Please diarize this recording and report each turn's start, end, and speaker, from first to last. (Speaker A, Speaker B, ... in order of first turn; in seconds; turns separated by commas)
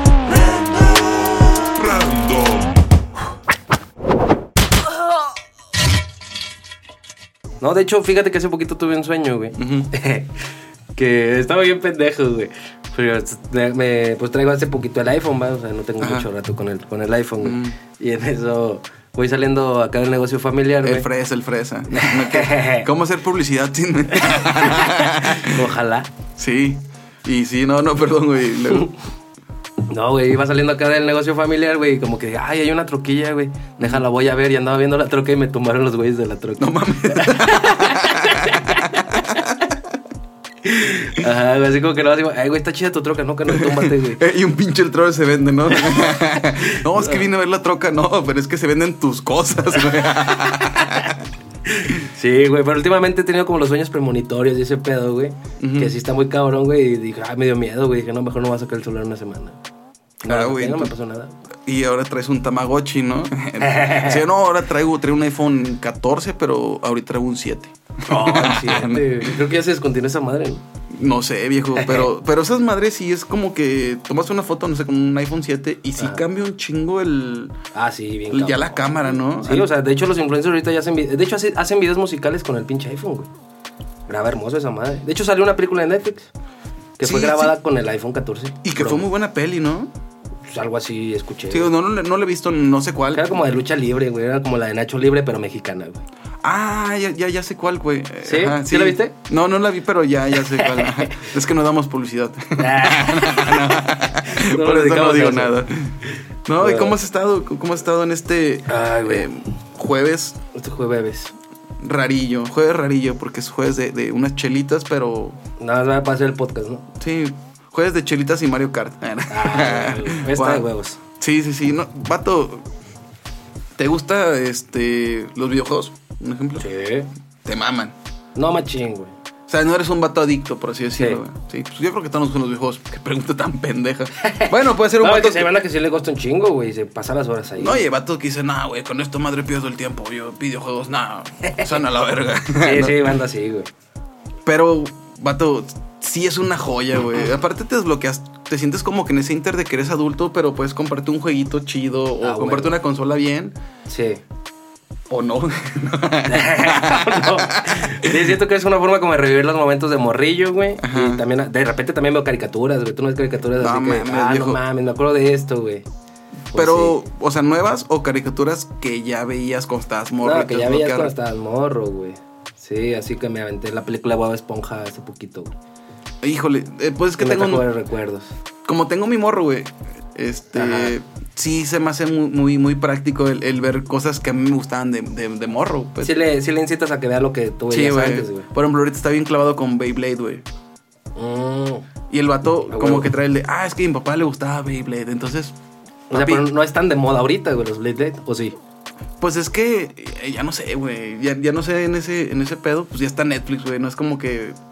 Speaker A: 0.3-2.8, Speaker B: 7.6-10.3, Speaker C: 9.6-9.9, Speaker B: 10.9-21.1, Speaker C: 16.0-16.3, Speaker C: 17.4-17.8, Speaker C: 20.8-25.6, Speaker B: 21.9-22.9, Speaker B: 24.1-26.1, Speaker C: 26.4-28.9, Speaker B: 29.9-39.3, Speaker C: 33.8-34.0, Speaker C: 36.6-39.8, Speaker B: 40.6-44.2, Speaker C: 43.5-51.3, Speaker B: 45.9-47.2, Speaker B: 50.6-51.1, Speaker B: 51.7-59.6, Speaker C: 55.6-55.9, Speaker B: 60.2-61.4, Speaker C: 60.2-60.9, Speaker C: 61.7-69.4, Speaker B: 63.6-64.2, Speaker B: 68.1-70.6, Speaker C: 70.9-77.5, Speaker B: 71.8-72.1, Speaker B: 77.7-83.3, Speaker C: 78.3-79.7, Speaker B: 84.1-86.3, Speaker B: 87.0-89.0, Speaker C: 87.0-87.5, Speaker C: 88.6-89.9, Speaker B: 90.5-91.7, Speaker C: 91.5-93.3, Speaker B: 93.1-96.0, Speaker C: 96.4-110.4, Speaker B: 98.2-99.1, Speaker B: 100.5-101.3, Speaker B: 102.6-105.6, Speaker B: 106.6-107.0, Speaker B: 108.7-109.3, Speaker B: 110.5-111.3, Speaker C: 111.8-115.4, Speaker B: 115.6-116.9, Speaker C: 117.0-120.7, Speaker B: 119.3-121.0, Speaker C: 121.2-122.7, Speaker C: 123.8-126.7, Speaker B: 126.6-127.1, Speaker C: 127.5-128.0, Speaker B: 128.4-129.1, Speaker C: 129.5-135.5, Speaker B: 130.9-131.2, Speaker B: 134.2-137.8, Speaker C: 137.6-143.1, Speaker B: 142.6-143.7, Speaker C: 144.4-153.6, Speaker B: 152.2-152.8, Speaker B: 153.9-154.2, Speaker C: 155.1-158.3, Speaker B: 156.3-165.9, Speaker C: 160.8-161.2, Speaker C: 163.6-164.6, Speaker B: 166.5-166.9, Speaker C: 166.5-171.1, Speaker B: 170.2-175.6, Speaker C: 176.2-177.7, Speaker B: 177.2-178.3, Speaker C: 178.7-186.1, Speaker B: 180.6-180.9, Speaker B: 186.0-188.5, Speaker C: 187.7-190.4, Speaker B: 191.2-191.9, Speaker C: 192.1-195.6, Speaker B: 192.7-193.1, Speaker C: 196.1-196.5, Speaker B: 196.1-198.6, Speaker C: 199.2-204.6